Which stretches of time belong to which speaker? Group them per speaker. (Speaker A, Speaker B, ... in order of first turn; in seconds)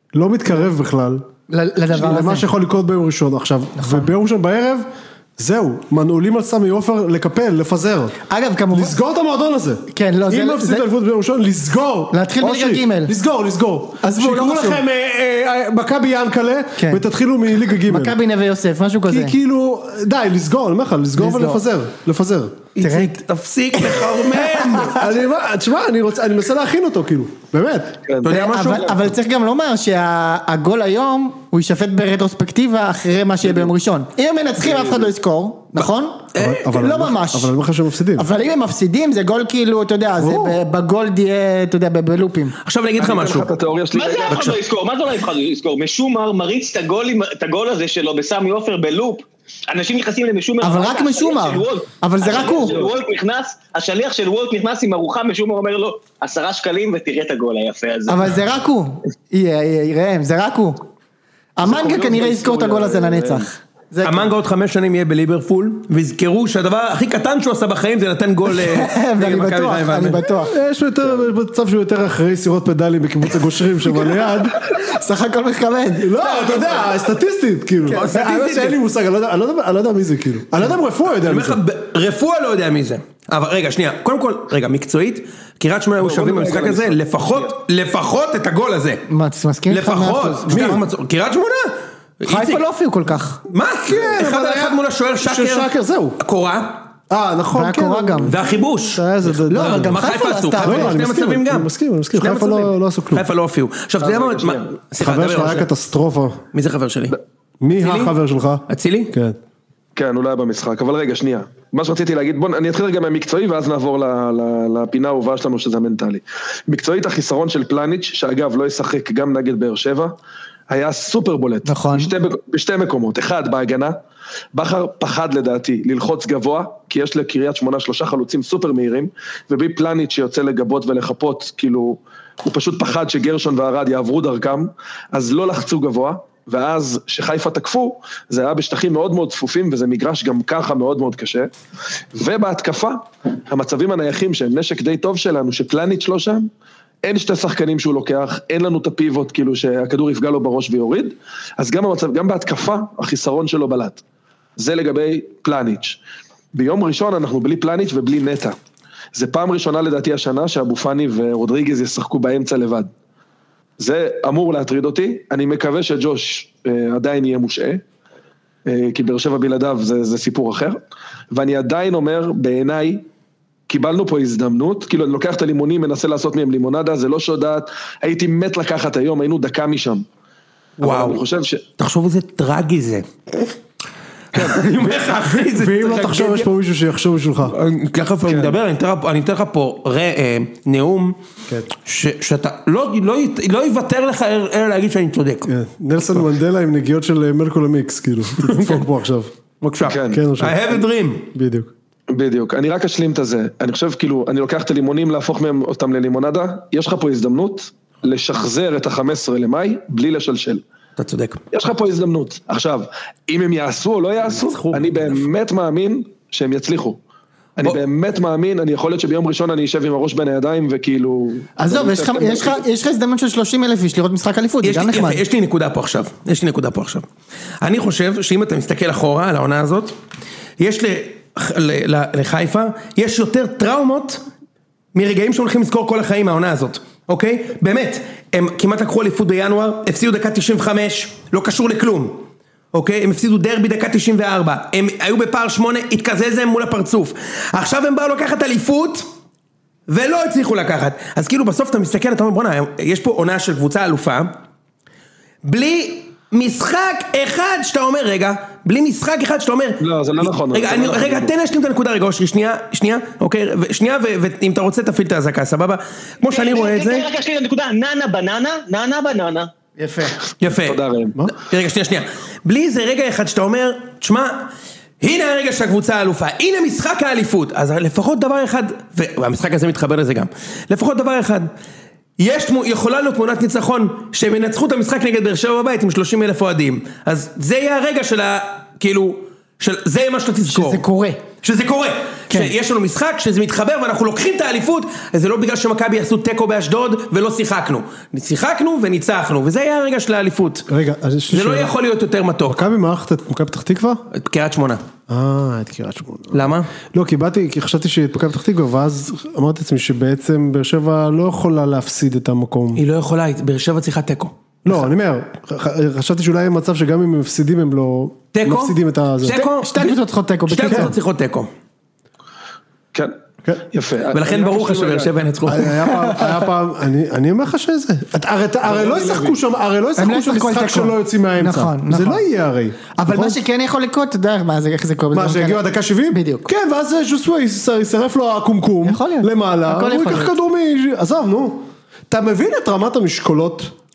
Speaker A: 0.1-1.3, 1.9-8.2, 8.7-18.2, 19.1-22.6, 24.9-28.0, 36.4-38.3, 40.2-40.5, 70.5-74.6, 76.0-81.6, 90.5-90.8, 93.8-96.2, 97.1-98.4, 98.9-100.0, 100.6-103.3, 105.0-106.4, 107.6-109.4, 185.3-187.6, 195.5-199.3, 199.9-200.8, 201.3-201.7, 300.7-301.7, 302.5-304.0, 305.1-312.8, 314.6-319.4, 325.5-333.4, 335.1-343.7
Speaker B: 1.5-2.5, 3.8-4.1, 8.3-9.0, 9.9-10.9, 12.1-13.1, 14.0-14.8, 16.8-17.0, 17.8-19.4, 21.2-21.6, 22.8-23.2, 23.9-24.8, 28.3-37.5, 38.2-42.6, 50.6-52.8, 58.1-60.9, 61.6-64.3, 68.5-70.5, 74.6-76.7, 89.1-90.8, 92.2-93.4, 97.5-98.4, 99.5-101.0, 121.7-122.1, 221.6-225.2, 269.8-270.2, 290.5-291.2, 319.3-320.9, 325.9-326.4, 330.0-332.2, 333.0-336.5, 338.8-340.3
Speaker C: 22.8-25.1, 28.2-29.1, 35.8-36.7, 42.6-43.5, 44.3-44.6, 64.0-70.2, 77.9-78.8, 81.2-89.0, 89.7-92.6, 93.5-96.9, 98.2-105.7, 106.5-107.2, 107.8-108.2, 108.7-109.1, 180.8-181.2, 181.8-183.1, 184.3-186.5, 187.4-191.2, 191.8-195.5, 198.5-198.8, 199.6-201.3, 211.0-211.4, 214.3-215.3, 224.6-227.1, 227.6-229.9, 230.6-234.2, 234.9-249.1, 249.9-254.4, 255.4-267.1, 270.4-274.5, 275.0-281.5, 282.2-290.8, 291.4-300.7, 301.3-302.6, 304.1-304.8, 306.3-306.7, 312.8-314.3, 318.3-321.5, 324.1-325.8
Speaker D: 34.6-35.1, 43.0-44.5, 52.5-53.0, 61.6-63.5, 86.0-87.5, 104.0-104.7, 110.0-120.2, 120.7-124.0, 124.5-141.5, 142.1-146.5, 147.0-154.0, 154.6-156.0, 156.5-158.6, 159.2-162.9, 163.8-167.8, 168.7-170.8, 171.3-173.1, 173.7-180.1, 180.8-181.6, 184.3-184.9, 188.2-188.6, 199.8-200.2, 202.1-210.6, 211.5-217.0, 217.6-222.6, 259.8-261.3, 270.4-271.2, 323.7-325.1, 328.6-329.4
Speaker E: 43.9-58.4, 266.3-269.5